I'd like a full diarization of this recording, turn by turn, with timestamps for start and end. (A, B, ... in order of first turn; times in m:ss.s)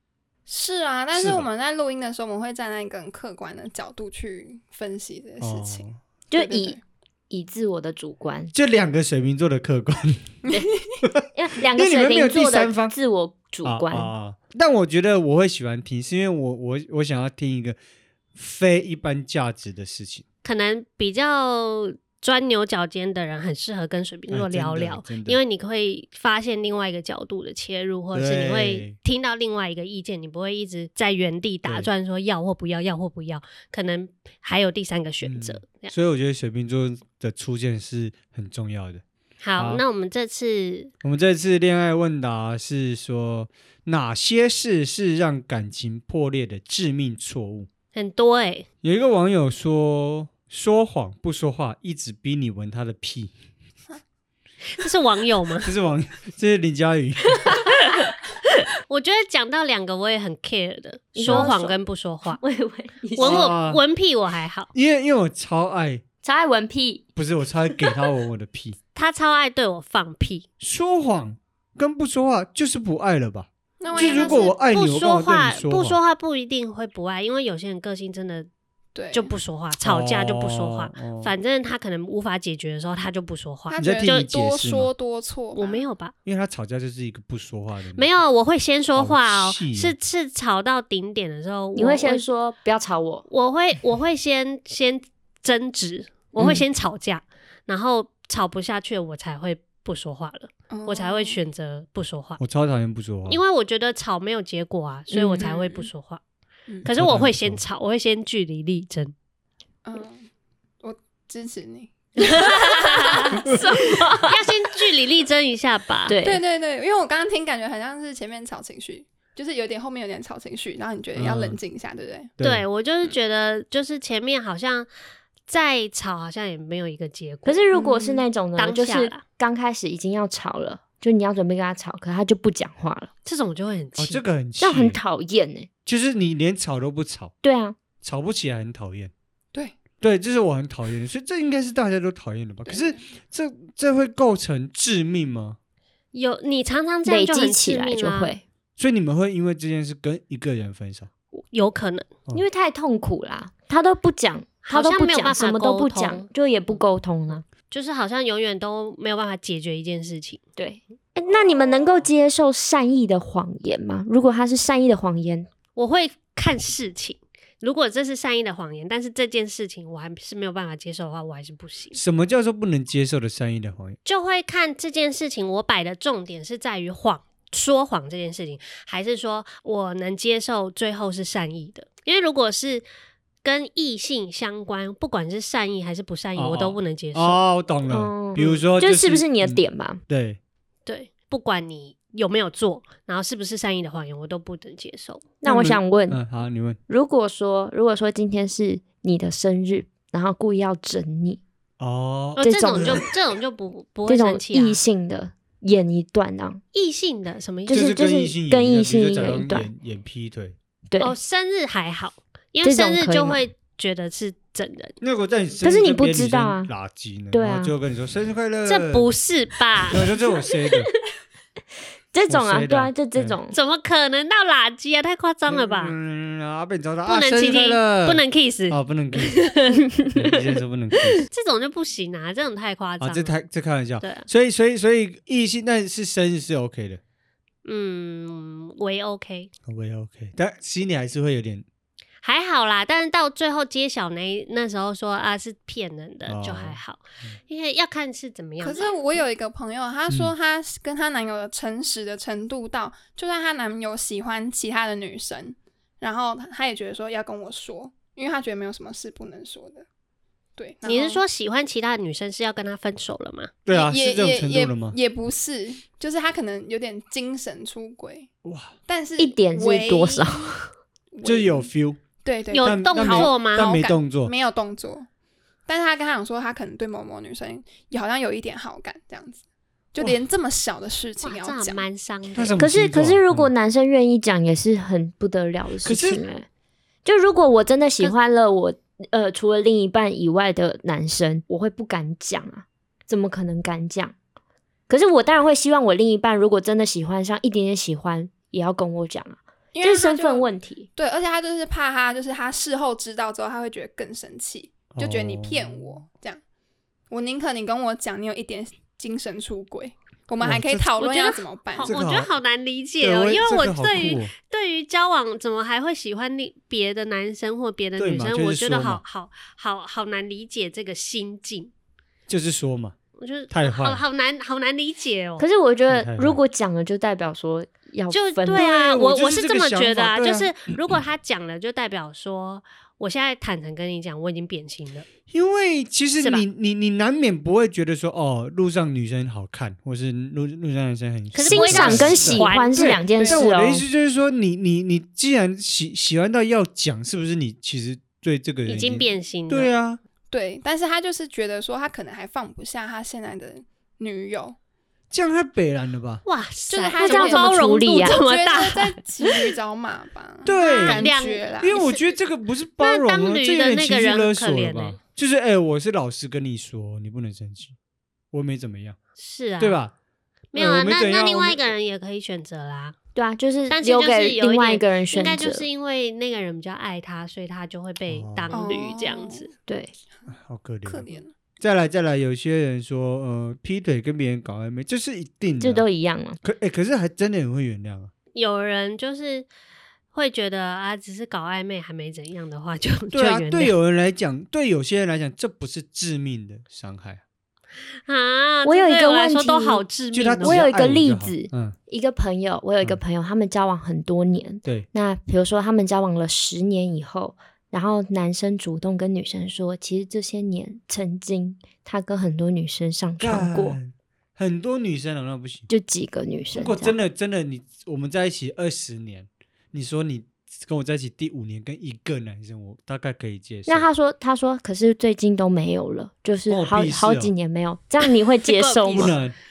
0:00.5-0:06.8 A
0:01.1-0:01.5 B
0:05.4-0:06.0 B
0:06.3-0:06.8 C
0:07.3-0:08.5 C
0:08.5-0:10.4 B
0:10.4-0:11.0 A
0:11.3-0:14.1 C
0:11.8-0:13.0 B
0:13.6-0:17.8 B
0:18.4-0:20.2 B
0:20.4-0:35.9 D
0:24.3-0:25.4 B
0:28.1-0:29.0 B
0:31.6-0:31.9 B
0:35.2-0:39.0 B
0:39.4-0:40.9 D
0:39.6-0:39.8 B
0:41.0-0:47.7 B
0:47.9-0:48.7 D
0:48.8-0:53.3 B
0:54.8-0:55.7 D
0:55.6-0:57.6 B
0:58.9-1:02.4 D
1:01.2-1:03.5 C
1:03.2-1:04.7 D
1:03.2-1:03.8 B
1:04.7-1:06.0 B
1:06.2-1:07.1 C
1:07.2-1:08.8 B
1:09.0-1:10.5 D
1:10.6-1:16.0 B
1:13.8-1:14.6 A
1:13.9-1:18.5 D
1:19.0-1:19.4 A
1:19.1-1:24.3 D
1:19.8-1:21.3 B
1:23.7-1:25.8 A
1:23.8-1:24.9 B
1:25.6-1:26.2 D
1:26.2-1:28.1 B
1:28.0-1:32.2 D
1:29.0-1:30.0 B
1:31.8-1:33.3 C
1:33.3-1:42.4 D
1:40.7-1:41.4 A
1:42.4-1:43.4 B
1:43.3-1:46.2 D
1:45.1-1:45.5 C
1:45.4-1:45.9 A
1:46.8-1:49.1 D
1:46.9-1:47.6 B
1:49.8-1:50.3 A
1:50.8-1:52.8 A
1:52.2-1:56.2 D
1:53.2-1:54.4 C
1:56.1-1:56.4 C
1:56.2-2:02.3 A
2:01.2-2:01.6 B
2:02.4-2:02.6 B
2:02.4-2:04.9 D
2:05.5-2:07.6 D
2:07.4-2:13.1 C
2:07.7-2:08.2 A
2:08.6-2:09.2 D
2:13.2-2:14.2 D
2:14.0-2:15.0 B
2:14.6-2:15.7 C
2:15.9-2:17.3 B
2:17.4-2:17.8 C
2:18.0-2:19.1 B
2:20.0-2:25.6 B
2:22.7-2:23.0 A
2:26.1-2:28.4 D
2:27.0-2:28.4 C
2:28.8-2:31.1 B
2:31.3-2:32.1 D
2:32.3-2:37.5 C
2:34.6-2:36.3 D
2:37.7-2:40.4 D
2:40.6-2:45.5 C
2:45.8-2:52.0 D
2:51.9-2:54.0 B
2:54.0-3:02.9 D
3:03.4-3:07.4 D
3:06.4-3:10.4 B
3:07.9-3:10.0 C
3:08.4-3:08.6 D
3:10.9-3:15.2 D
3:15.4-3:16.2 C
3:15.4-3:16.8 B
3:16.9-3:21.4 C
3:21.8-3:23.0 B
3:22.4-3:24.8 D
3:22.4-3:23.1 C
3:24.1-3:26.6 C
3:26.7-3:28.0 D
3:27.7-3:29.7 C
3:27.7-3:30.6 B
3:30.9-3:31.2 C
3:31.0-3:35.0 D
3:32.6-3:33.4 C
3:35.0-3:39.1 B
3:35.6-3:36.7 C
3:37.3-3:37.7 C
3:38.6-3:40.0 D
3:39.9-3:40.9 B
3:42.1-3:43.6 C
3:42.3-3:43.4 B
3:43.5-3:46.0 D
3:45.5-3:49.5 B
3:47.0-3:49.8 D
3:50.1-3:51.3 B
3:51.3-3:53.4 D
3:53.0-3:57.0 B
3:54.0-3:54.3 D
3:57.6-3:59.5 D
3:59.7-4:01.6 B
4:02.2-4:08.9 D
4:06.3-4:07.4 B
4:08.6-4:19.9 A
4:20.6-4:21.2 A
4:20.8-4:23.5 D
4:23.7-4:25.0 B
4:23.7-4:28.3 A
4:28.4-4:28.7 B
4:28.9-4:30.6 A
4:29.2-4:30.7 C
4:31.1-4:31.7 A
4:31.2-4:32.0 B
4:32.2-4:35.1 A
4:32.5-4:33.8 D
4:32.6-4:34.3 B
4:35.7-4:39.4 A
4:39.9-4:41.8 A
4:41.2-4:42.6 D
4:42.4-4:43.5 B
4:42.6-4:46.5 C
4:45.8-4:46.2 B
4:47.0-4:54.2 C
4:54.9-5:00.9 C
4:59.7-5:06.4 A
5:05.0-5:05.9 B
5:07.1-5:11.9 A
5:10.4-5:10.9 B
5:11.0-5:21.7 D
5:11.8-5:12.3 B
5:13.0-5:14.3 B
5:18.0-5:19.0 B
5:22.3-5:23.0 B
5:23.2-5:25.5 D
5:23.5-5:24.0 B
5:25.4-5:28.7 C
5:25.9-5:26.4 B
5:28.1-5:35.1 D
5:28.5-5:30.8 B
5:35.3-5:50.0 B
5:41.3-5:43.0 D
5:41.5-5:43.9 C
5:43.2-5:43.5 A
5:48.7-5:49.7 D
5:50.3-5:54.6 A
5:55.1-5:56.2 B
5:56.3-5:59.4 D
5:56.7-6:02.0 A
5:57.0-5:58.2 C
6:00.4-6:07.8 B
6:00.8-6:02.0 D
6:02.8-6:05.0 D
6:08.3-6:09.0 B
6:09.2-6:09.8 D
6:09.6-6:09.9 B
6:10.5-6:13.0 D
6:10.5-6:11.7 B
6:13.2-6:15.7 C
6:13.7-6:19.5 D
6:18.1-6:18.6 B
6:18.5-6:19.5 A
6:19.7-6:19.9 C
6:20.3-6:25.9 B
6:20.8-6:21.3 A
6:25.6-6:26.4 C
6:26.4-6:28.1 B
6:28.3-6:29.5 D
6:30.1-6:33.8 D
6:33.1-6:37.2 B
6:38.1-6:40.7 D
6:38.6-6:39.9 C
6:40.1-6:41.8 B
6:40.4-6:53.8 C
6:53.2-6:55.7 B
6:55.7-6:57.0 C
6:56.5-7:03.9 B
7:03.7-7:09.2 C
7:06.5-7:07.3 B
7:08.5-7:09.2 D
7:08.9-7:09.4 B